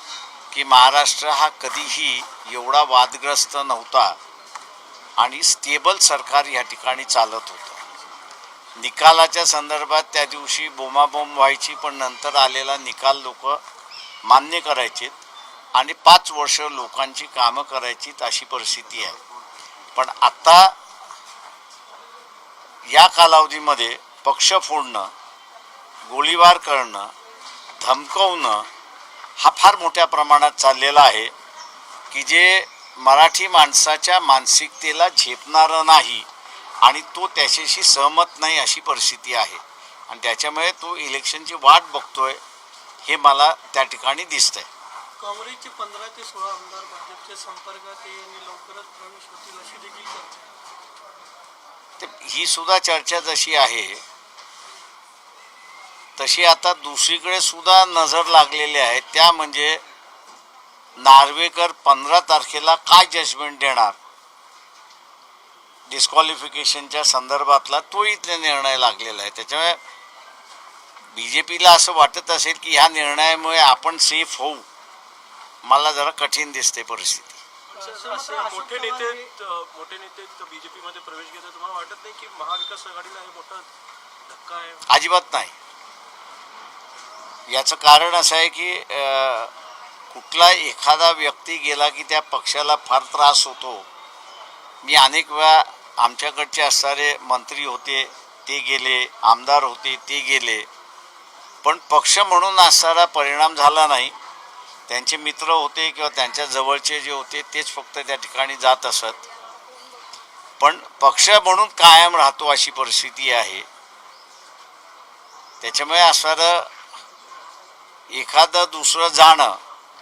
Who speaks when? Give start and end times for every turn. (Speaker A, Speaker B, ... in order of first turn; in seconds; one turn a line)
Speaker A: 0.5-4.2
Speaker A: 5.2-7.8
Speaker A: 8.8-13.6
Speaker A: 14.2-15.2
Speaker A: 15.7-19.1
Speaker A: 19.9-20.7
Speaker A: 22.9-25.1
Speaker A: 26.1-27.1
Speaker A: 27.8-28.7
Speaker A: 29.4-31.3
Speaker A: 32.1-36.3
Speaker A: 36.8-42.4
Speaker A: 43.0-44.7
Speaker B: 45.2-50.5
Speaker A: 52.0-54.0
Speaker A: 56.2-59.8
Speaker A: 61.0-64.0
Speaker A: 65.9-69.8
Speaker A: 71.1-74.7
Speaker A: 75.7-77.4
Speaker C: 77.7-83.7
Speaker B: 77.7-79.3
Speaker C: 84.3-84.8
Speaker A: 84.9-85.5
Speaker A: 87.5-89.5
Speaker A: 90.1-93.8
Speaker A: 94.8-100.7
Speaker A: 101.6-104.1
Speaker A: 104.9-109.2
Speaker A: 110.6-113.7
Speaker A: 115.6-116.7
Speaker A: 118.1-119.6